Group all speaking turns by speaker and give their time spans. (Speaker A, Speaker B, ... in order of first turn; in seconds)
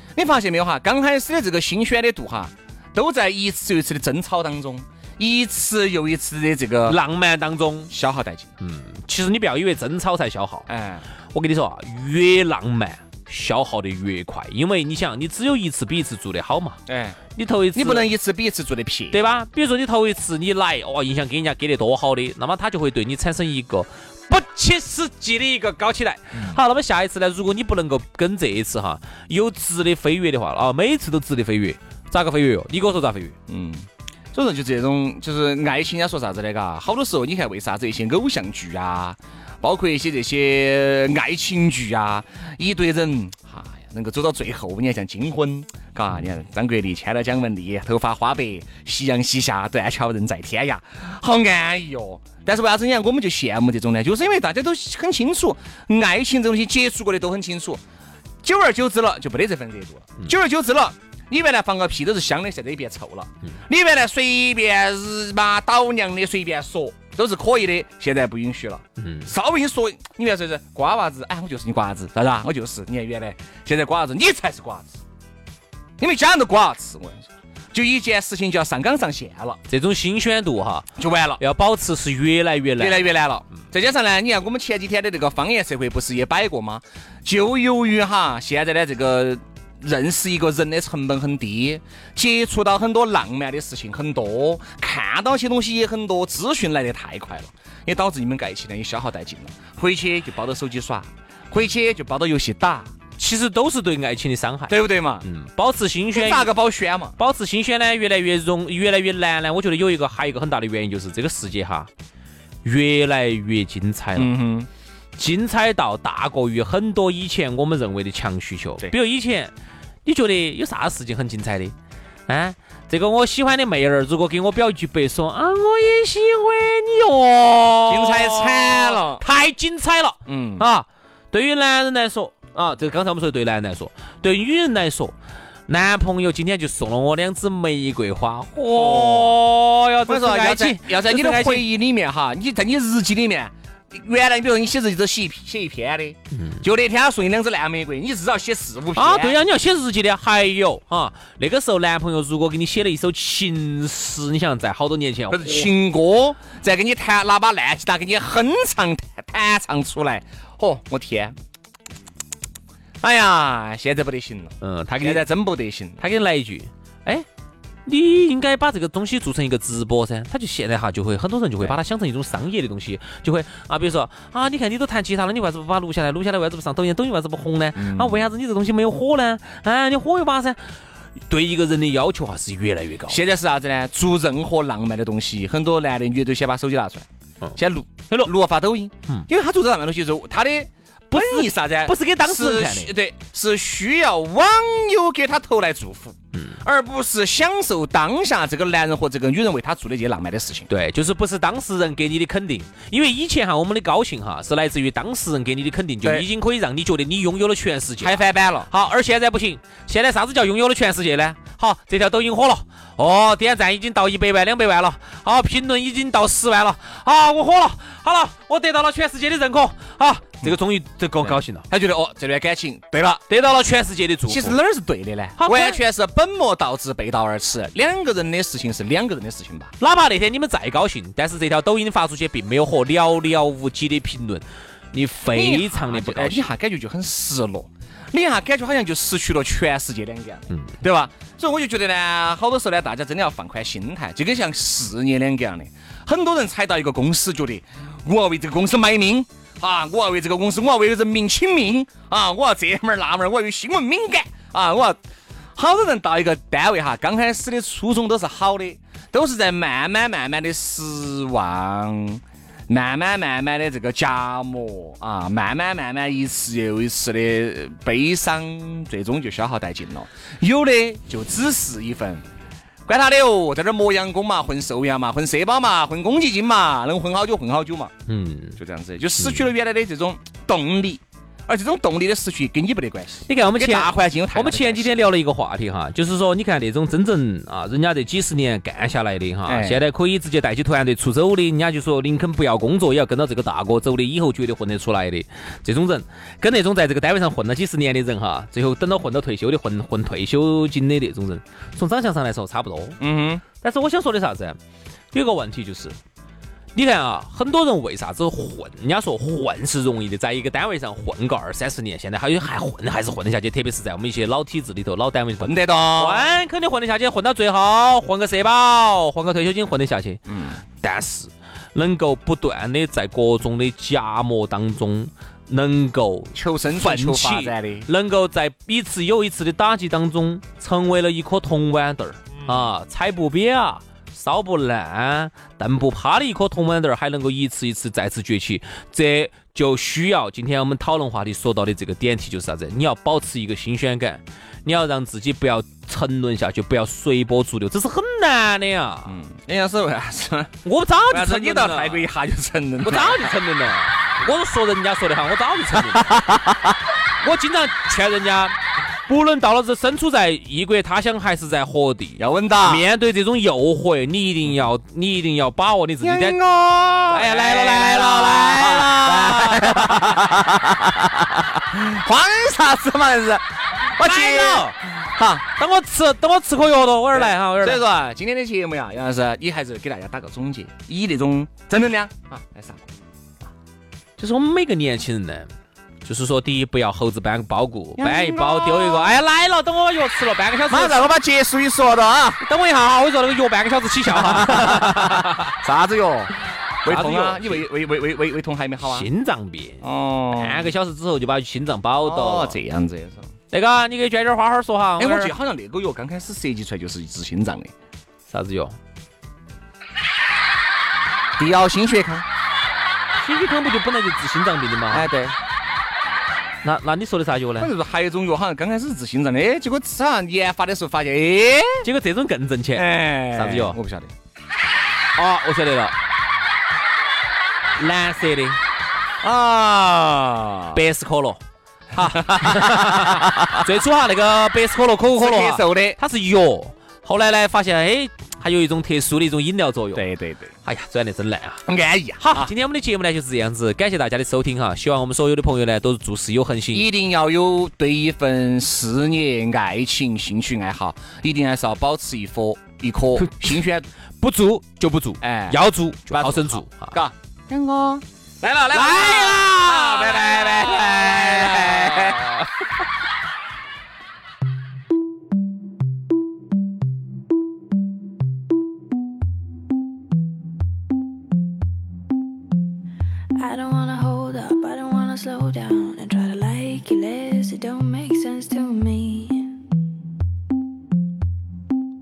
Speaker A: 0.2-7.0, 7.9-8.5, 10.7-11.1, 16.9-17.2, 17.8-19.2, 33.5-57.8, 58.4-75.0, 76.0-79.6, 81.0-81.4, 82.8-102.9, 104.7-105.3, 106.1-107.2, 114.2-114.7, 127.9-129.2, 130.3-130.7, 138.7-139.4, 140.1-149.4, 155.3-161.4, 163.0-166.0, 177.8-178.3, 183.1-200.7, 208.0-208.7, 221.2-223.2, 224.3-229.7, 235.3-255.0, 255.6-272.2, 272.9-277.9, 278.6-285.1, 289.5-289.8, 303.0-303.4, 315.4-316.3, 320.3-320.6, 326.3-327.9, 349.1-350.5, 351.1-353.4, 356.0-356.4, 362.2-362.9, 366.0-375.4, 377.1-382.9, 388.0-389.1, 390.7-392.4, 394.1-399.1, 399.8-400.7, 402.1-403.3, 405.0-407.7, 411.4-412.2, 414.9-415.4, 417.6-421.9, 422.8-424.1, 429.2-430.8, 431.9-433.6, 435.2-436.0, 439.9-440.5, 441.7-442.5, 446.7-453.9, 455.2-462.3
Speaker B: 6.9-7.9, 8.6-10.7, 11.3-16.8, 17.4-18.1, 19.1-33.4, 69.0-69.3, 79.7-80.9, 81.4-83.1, 103.2-106.5, 107.2-111.9, 112.6-114.3, 115.2-119.5, 120.0-121.7, 122.3-135.2, 135.7-141.7, 146.4-146.6, 149.0-155.7, 164.6-165.2, 166.0-167.3, 167.9-180.6, 181.3-183.2, 191.1-192.9, 200.7-221.7, 223.3-224.6, 225.4-225.8, 229.8-236.5, 278.1-278.6, 279.2-279.5, 283.3-303.0, 303.6-304.6, 305.1-306.0, 306.8-320.2, 320.8-349.1, 350.6-352.1, 352.8-356.2, 357.2-358.6, 359.1-366.4, 367.1-370.2, 374.0-374.8, 375.6-377.8, 384.2-385.5, 386.1-391.1, 392.4-395.5, 396.9-397.7, 398.8-402.6, 403.5-405.3, 408.3-408.8, 413.2-415.1, 416.6-417.7, 421.8-423.8, 425.2-425.9, 427.8-428.6, 430.7-431.4, 432.0-440.0, 440.6-441.6, 442.2-446.9, 453.2-453.6, 454.2-457.0, 458.7-462.4
Speaker C: 473.4-479.5